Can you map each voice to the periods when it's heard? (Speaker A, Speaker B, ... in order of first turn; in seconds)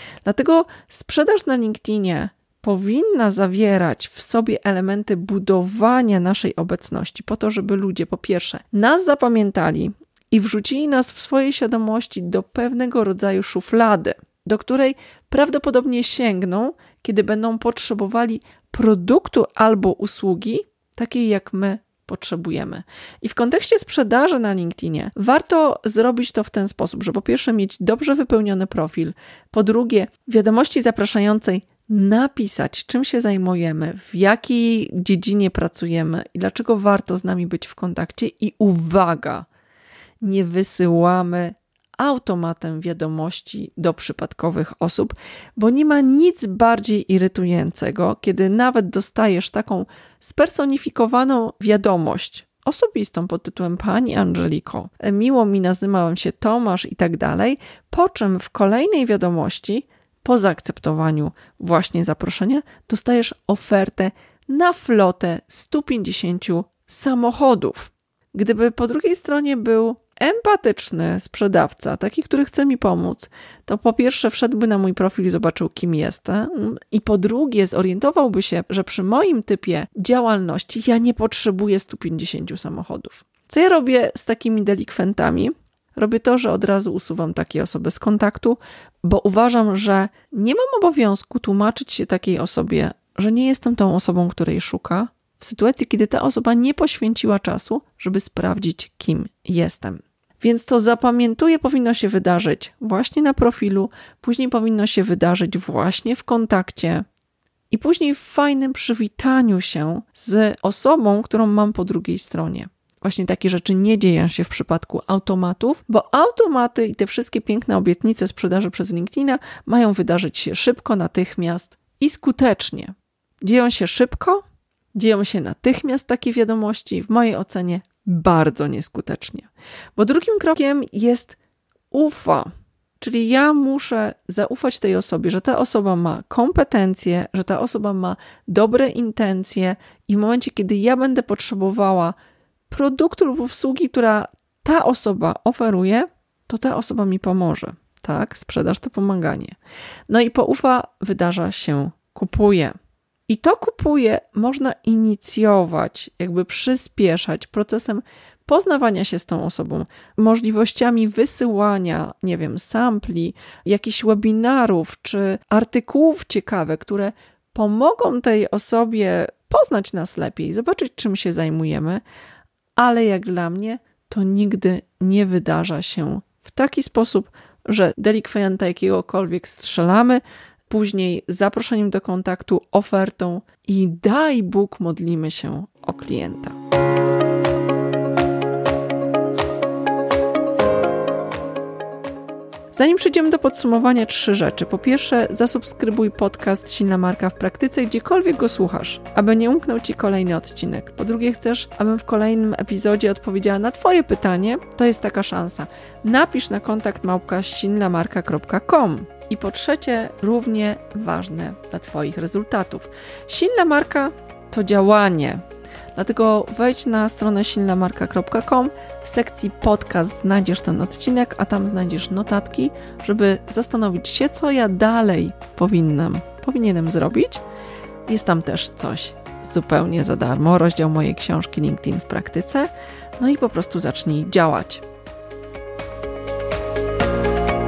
Speaker A: 0.2-39.5, 40.2-107.0, 107.7-124.4, 125.0-131.4, 131.9-142.2, 142.7-149.6, 150.1-152.8, 153.3-172.0, 172.8-186.6, 192.7-215.4, 215.9-227.4, 228.1-234.8